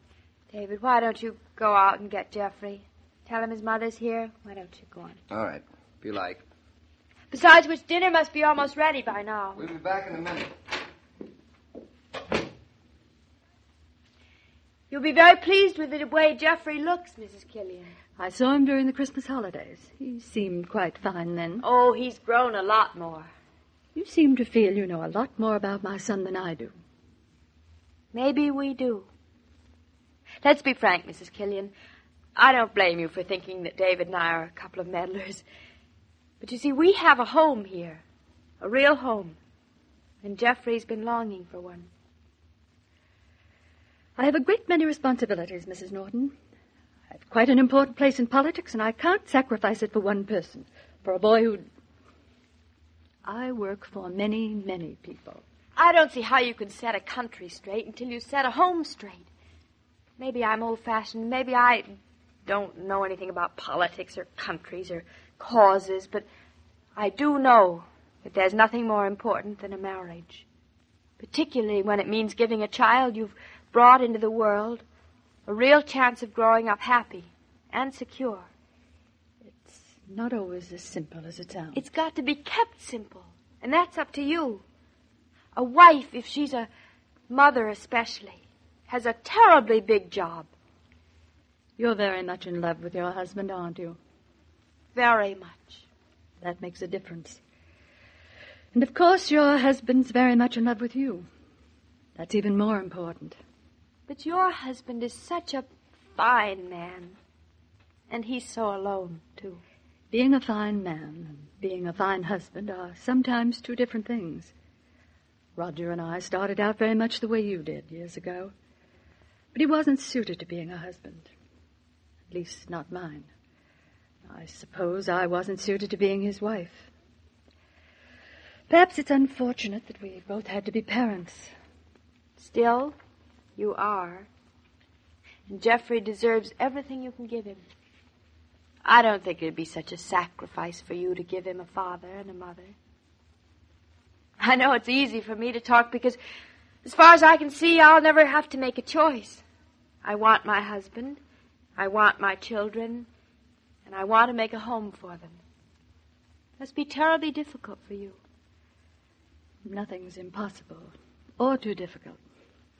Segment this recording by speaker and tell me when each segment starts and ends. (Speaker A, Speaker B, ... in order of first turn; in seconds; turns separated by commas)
Speaker A: 0.5-5.2, Speaker B: 5.3-6.4, Speaker A: 7.3-9.6, Speaker B: 9.6-10.5, Speaker A: 14.9-17.9, Speaker C: 18.2-21.6, Speaker A: 21.6-23.3, Speaker C: 23.9-26.7, Speaker A: 28.1-29.1, Speaker A: 30.4-31.7, Speaker A: 32.3-35.4, Speaker A: 36.4-38.0, Speaker A: 38.6-39.4, Speaker A: 40.2-41.9, Speaker C: 44.2-46.3, Speaker C: 47.1-51.6, Speaker C: 53.2-55.4, Speaker A: 55.8-59.3, Speaker A: 60.2-61.9, Speaker A: 62.4-66.2, Speaker A: 67.0-70.4, Speaker A: 71.2-74.8, Speaker A: 75.5-78.5, Speaker C: 79.4-81.8, Speaker A: 81.7-84.6, Speaker A: 85.5-86.7, Speaker A: 87.3-90.5, Speaker C: 91.8-94.0, Speaker A: 94.9-95.8, Speaker C: 96.4-97.4, Speaker C: 98.7-101.3, Speaker C: 102.2-103.4, Speaker A: 104.1-107.2, Speaker A: 108.1-109.6, Speaker C: 110.1-114.5, Speaker C: 115.5-118.5, Speaker C: 119.5-121.3, Speaker C: 122.3-123.3, Speaker C: 124.2-126.9, Speaker C: 128.7-131.5, Speaker A: 132.4-132.9, Speaker A: 133.6-134.3, Speaker A: 135.5-137.6, Speaker A: 138.8-142.7, Speaker A: 144.4-146.2, Speaker A: 146.8-149.4, Speaker A: 150.0-151.2, Speaker A: 151.8-153.1, Speaker A: 153.8-155.4, Speaker A: 156.6-158.2, Speaker C: 159.6-162.2